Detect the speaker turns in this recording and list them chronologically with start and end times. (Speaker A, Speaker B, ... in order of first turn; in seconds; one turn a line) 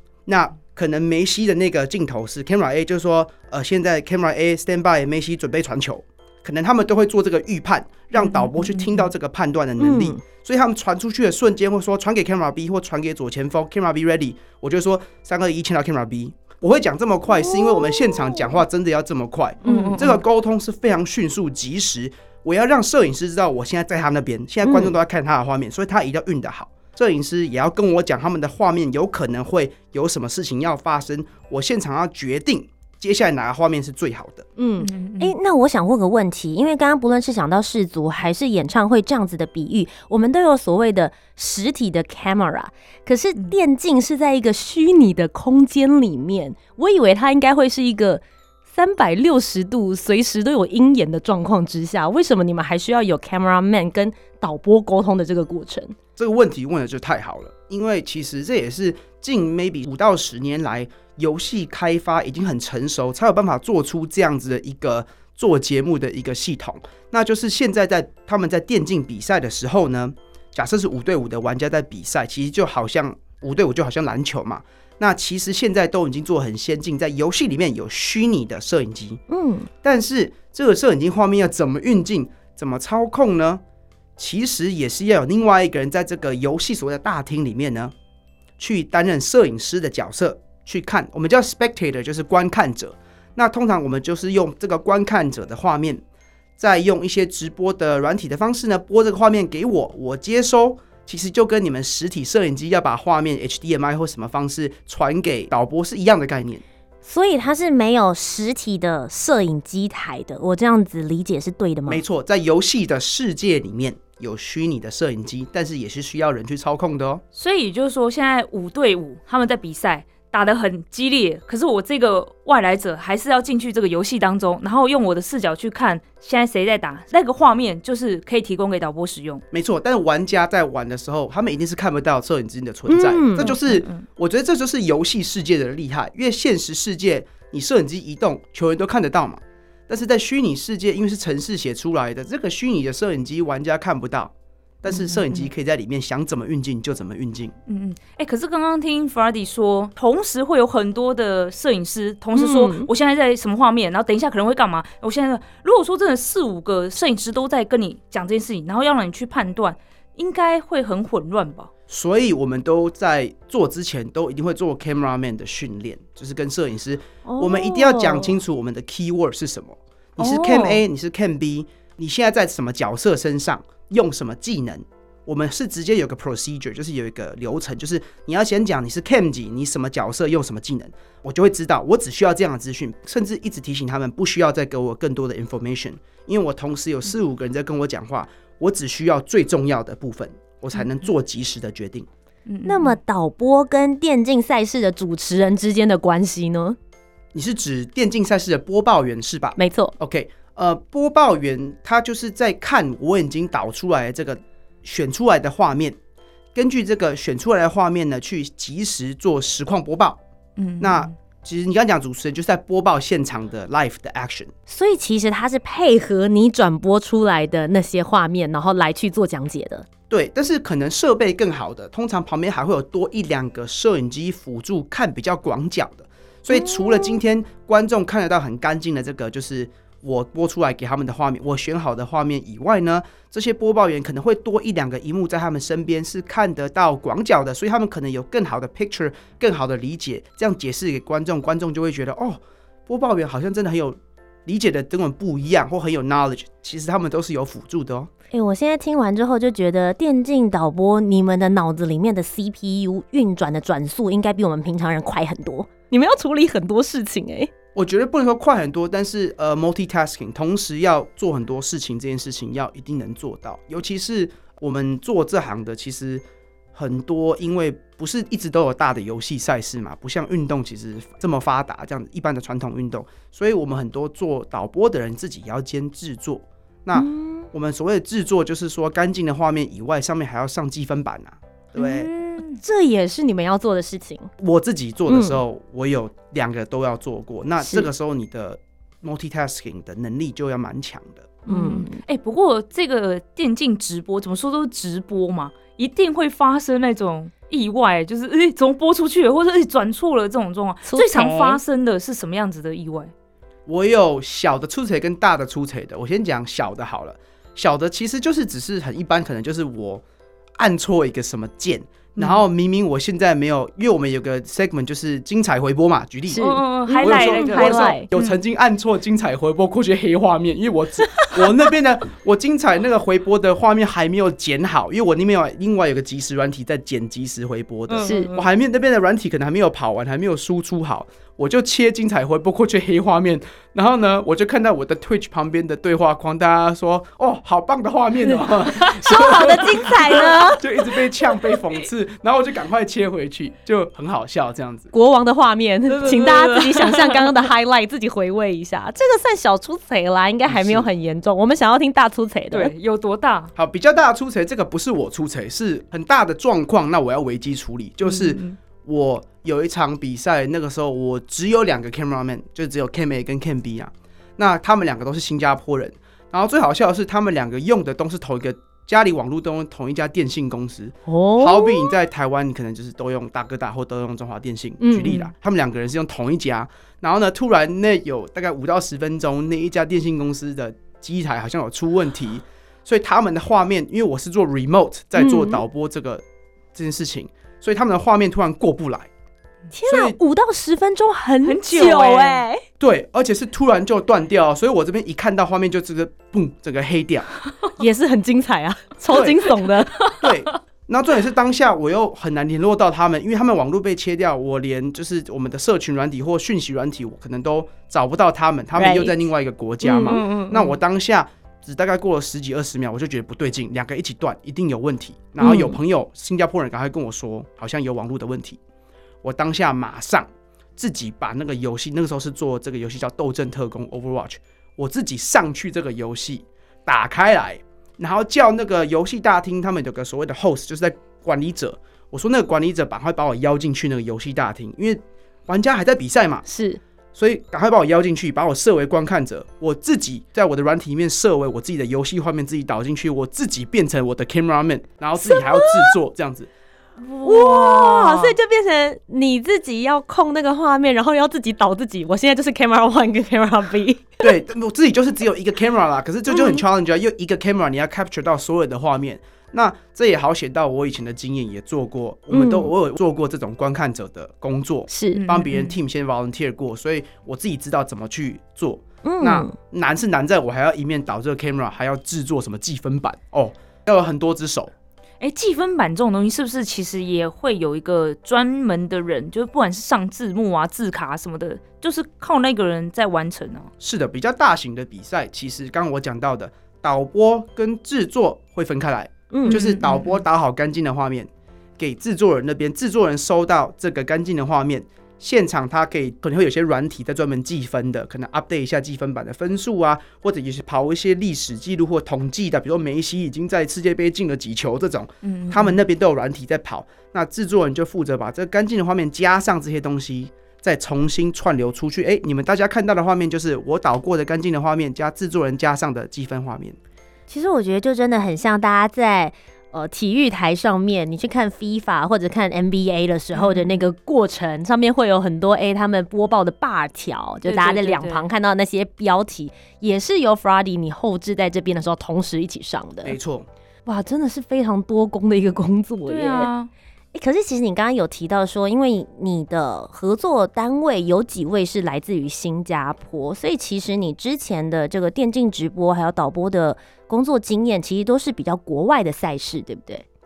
Speaker A: 0.2-34.5
Speaker B: 8.2-9.1
Speaker C: 9.8-10.2
Speaker C: 17.4-18.4
Speaker C: 19.6-20.0
Speaker B: 19.6-20.2
Speaker C: 24.6-24.9
Speaker C: 34.6-55.9
Speaker B: 34.8-35.4
Speaker A: 56.1-79.2
Speaker C: 79.3-79.7
Speaker A: 79.8-83.6
Speaker A: 84.2-87.9
Speaker A: 88.6-96.0
Speaker A: 96.6-106.6
Speaker C: 107.0-112.0
Speaker A: 111.9-117.2
Speaker B: 117.3-129.4
Speaker A: 129.5-147.5
Speaker C: 132.9-133.5
Speaker B: 133.4-134.0
Speaker B: 144.9-145.5
Speaker B: 147.7-161.7
Speaker C: 152.4-152.9
Speaker A: 161.9-192.1
Speaker C: 167.2-168.4
Speaker B: 170.2-170.8
Speaker B: 192.5-193.0
Speaker C: 192.7-196.8
Speaker A: 197.3-206.0
Speaker C: 199.6-199.9
Speaker A: 206.5-210.2
Speaker B: 210.6-211.1
Speaker A: 210.8-214.5
Speaker C: 214.7-219.9
Speaker A: 220.1-248.1
Speaker C: 226.5-227.2
Speaker C: 248.3-257.5
Speaker A: 257.8-266.2
Speaker A: 266.7-282.1
Speaker C: 276.9-277.5
Speaker B: 281.8-282.6
Speaker C: 282.6-284.3
Speaker A: 284.4-291.4
Speaker C: 285.1-285.4
Speaker C: 287.6-287.9
Speaker C: 291.5-292.0
Speaker B: 291.5-303.1
Speaker C: 300.8-301.6
Speaker A: 303.7-310.0
Speaker A: 310.6-344.9
Speaker C: 316.3-318.1
Speaker B: 316.4-318.4
Speaker B: 327.9-328.4
Speaker C: 328.0-328.3
Speaker B: 338.8-339.9
Speaker C: 339.0-340.6
Speaker C: 344.9-352.7
Speaker B: 345.9-347.3
Speaker A: 350.5-350.9
Speaker B: 352.5-353.5
Speaker A: 353.6-386.2
Speaker B: 358.0-358.6
Speaker C: 371.1-371.9
Speaker C: 374.8-375.3
Speaker C: 385.1-385.6
Speaker A: 386.7-389.1
Speaker C: 389.7-392.6
Speaker A: 389.9-390.2
Speaker B: 391.4-392.4
Speaker A: 392.8-397.3
Speaker C: 397.8-400.0
Speaker B: 399.9-400.3
Speaker A: 400.2-418.6
Speaker C: 408.8-409.1
Speaker C: 409.9-410.5
Speaker B: 409.9-410.7
Speaker C: 415.4-415.7
Speaker A: 419.2-436.4
Speaker C: 436.5-436.8
Speaker A: 437.1-446.5
Speaker C: 445.2-445.7
Speaker B: 447.0-448.3
Speaker C: 447.2-454.2
Speaker A: 454.2-474.7
Speaker B: 456.3-456.6
Speaker C: 462.3-462.7
Speaker C: 464.9-465.2
Speaker B: 465.1-465.8
Speaker C: 469.0-469.5
Speaker B: 475.2-483.7
Speaker A: 483.8-516.8
Speaker C: 489.3-489.6
Speaker B: 489.5-490.2
Speaker B: 505.2-505.8
Speaker C: 517.3-533.2
Speaker B: 523.3-523.8
Speaker B: 527.5-528.3
Speaker A: 533.0-533.5
Speaker C: 533.9-536.5
Speaker B: 536.1-536.7
Speaker C: 537.1-550.0